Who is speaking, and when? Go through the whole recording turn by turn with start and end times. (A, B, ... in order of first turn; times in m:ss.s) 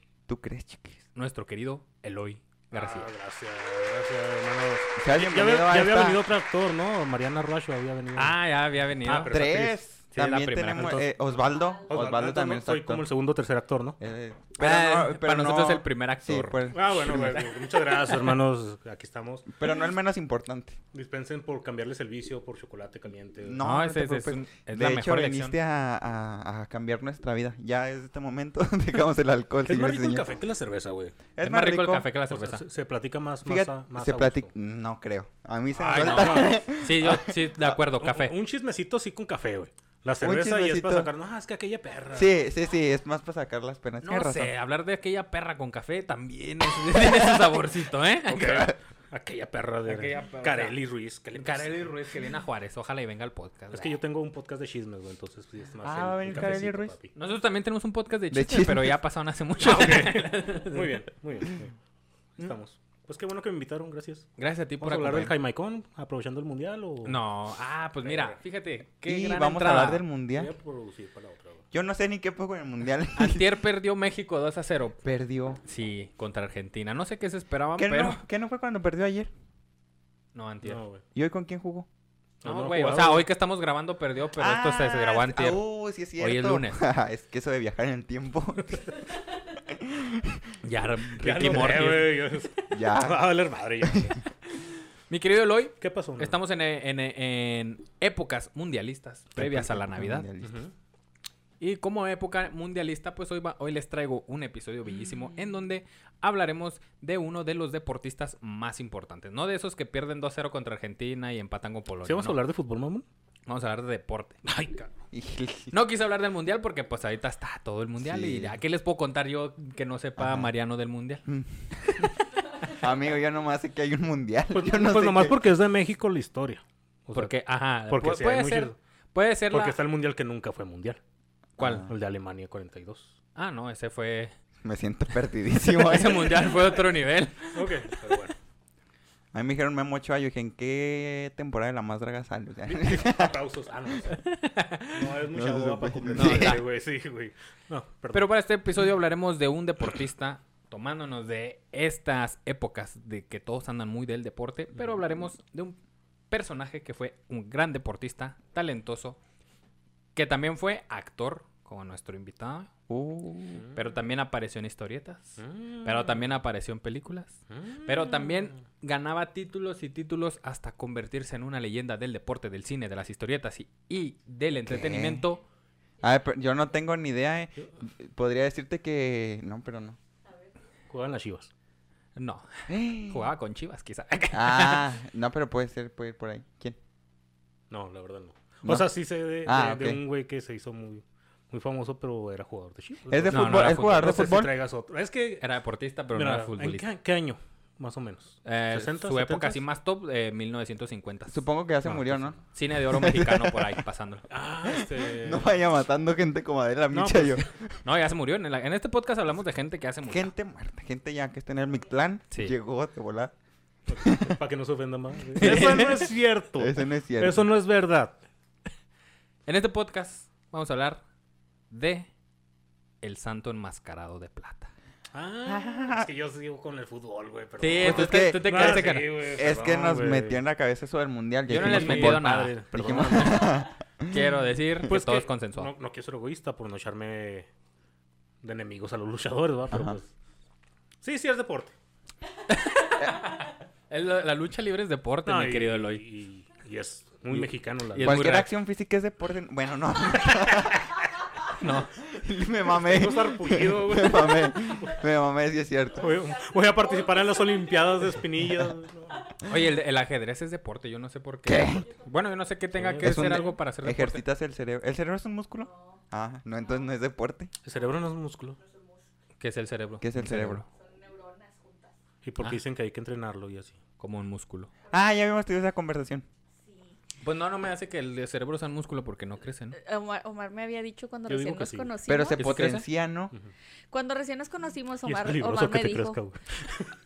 0:00.3-0:01.0 A
0:01.2-0:03.1 B
0:02.7-0:08.4 C
0:05.0-0:06.2 A
0:08.2-0:09.4 B
0:09.0-0:09.8 C
0:09.2-0:13.1 A
0:10.1-0:11.0 B
0:10.7-0:11.1 C
0:11.9-0:14.0 C
0:14.0-0:17.4 A
0:14.6-0:18.4 B
0:16.7-0:19.5 C
0:19.5-0:20.8 A
0:20.9-0:23.6 C
0:23.4-0:30.3 A
0:23.6-0:25.6 B
0:29.7-0:31.2 C
0:31.4-0:32.1 A
0:31.4-0:32.6 B
0:32.3-0:34.5 C
0:33.4-0:37.4 A
0:35.8-0:36.6 C
0:35.8-0:38.4 B
0:38.0-0:42.3 C
0:40.2-0:41.1 A
0:42.1-0:44.5 A
0:44.0-0:48.7 B
0:46.9-0:47.5 A
0:48.3-0:52.1 C
0:49.9-0:50.8 B
0:51.3-0:54.0 B
0:53.7-0:57.1 C
0:55.8-0:57.0 A
0:57.1-1:01.0 B
0:58.3-0:59.0 A
0:59.6-1:01.7 C
1:02.4-1:07.2 C
1:04.4-1:05.4 B
1:07.0-1:10.0 B
1:08.0-1:08.4 C
1:09.0-1:10.5 A
1:10.3-1:11.6 C
1:11.7-1:13.5 A
1:13.2-1:15.0 B
1:15.0-1:15.6 A
1:15.6-1:18.2 B
1:17.8-1:19.3 A
1:20.3-1:20.8 B
1:20.6-1:21.0 C
1:21.1-1:21.9 A
1:22.4-1:23.3 C
1:22.4-1:25.6 B
1:24.4-1:28.9 A
1:26.2-1:26.8 B
1:29.4-1:30.6 A
1:30.6-1:32.2 B
1:31.2-1:34.2 C
1:32.7-1:34.2 A
1:34.6-1:40.3 B
1:35.8-1:36.4 C
1:39.4-1:40.6 A
1:40.4-1:40.7 C
1:41.6-1:52.4 B
1:52.0-1:53.0 C
1:53.5-1:54.4 B
1:54.4-1:54.9 C
1:55.1-1:55.7 A
1:55.7-2:01.3 B
1:58.0-1:58.6 A
2:00.2-2:00.5 A
2:01.3-2:05.4 A
2:04.5-2:07.4 C
2:07.1-2:09.8 B
2:07.9-2:08.8 C
2:09.5-2:11.0 C
2:11.6-2:11.9 A
2:11.6-2:11.8 B
2:11.6-2:13.1 C
2:13.4-2:14.3 B
2:14.6-2:16.6 A
2:15.6-2:17.9 B
2:17.5-2:18.3 C
2:19.3-2:23.4 A
2:22.6-2:24.2 C
2:24.2-2:25.0 B
2:24.9-2:28.3 C
2:25.3-2:26.6 A
2:26.1-2:26.6 B
2:28.1-2:35.8 B
2:36.3-2:39.2 B
2:40.2-2:42.7 B
2:42.9-2:43.6 A
2:43.7-2:55.4 B
2:45.4-2:46.2 C
2:47.5-2:48.5 C
2:54.7-2:55.2 A
2:56.0-3:00.0 A
3:00.9-3:01.5 C
3:02.2-3:04.9 B
3:02.7-3:03.3 A
3:04.3-3:06.8 A
3:07.7-3:15.5 C
3:09.4-3:10.0 A
3:13.1-3:14.5 A
3:13.3-3:14.4 B
3:15.4-3:16.8 B
3:16.2-3:19.6 C
3:18.4-3:21.4 B
3:21.3-3:23.8 A
3:21.8-3:22.4 C
3:22.5-3:24.2 B
3:24.3-3:25.6 C
3:24.6-3:27.8 A
3:26.9-3:27.5 C
3:27.8-3:30.3 B
3:30.0-3:33.3 A
3:33.9-3:38.2 C
3:34.0-3:34.4 A
3:35.4-3:35.9 A
3:35.4-3:36.1 B
3:36.6-3:37.5 A
3:39.5-3:41.0 B
3:41.7-3:42.1 B
3:43.0-3:44.7 B
3:45.1-3:50.4 C
3:45.5-3:46.1 A
3:47.6-3:49.1 B
3:47.8-3:54.2 A
3:51.5-3:53.6 C
3:51.5-3:52.6 B
3:54.1-3:55.7 B
3:54.8-3:57.5 C
3:58.4-4:00.1 C
3:59.7-4:00.0 A
4:01.0-4:01.7 C
4:02.5-4:06.0 B
4:05.2-4:08.2 C
4:07.9-4:08.5 B
4:08.0-4:10.9 A
4:10.4-4:10.8 C
4:11.6-4:11.9 B
4:11.8-4:16.2 A
4:12.8-4:14.7 C
4:16.0-4:19.3 C
4:16.6-4:17.9 D
4:19.4-4:24.2 B
4:21.5-4:21.9 A
4:22.7-4:23.5 C
4:23.0-4:27.5 A
4:25.7-4:26.0 D
4:27.6-4:28.6 C
4:28.6-4:29.0 D
4:29.4-4:30.6 B
4:30.0-4:30.6 A
4:30.7-4:31.9 D
4:32.2-4:33.8 C
4:34.0-4:34.7 B
4:34.9-4:36.2 A
4:36.6-4:37.0 D
4:37.2-4:39.8 B
4:39.8-4:42.7 D
4:41.3-4:41.9 C
4:42.1-4:43.3 A
4:42.4-4:42.9 B
4:43.9-4:46.2 D
4:45.0-4:46.9 C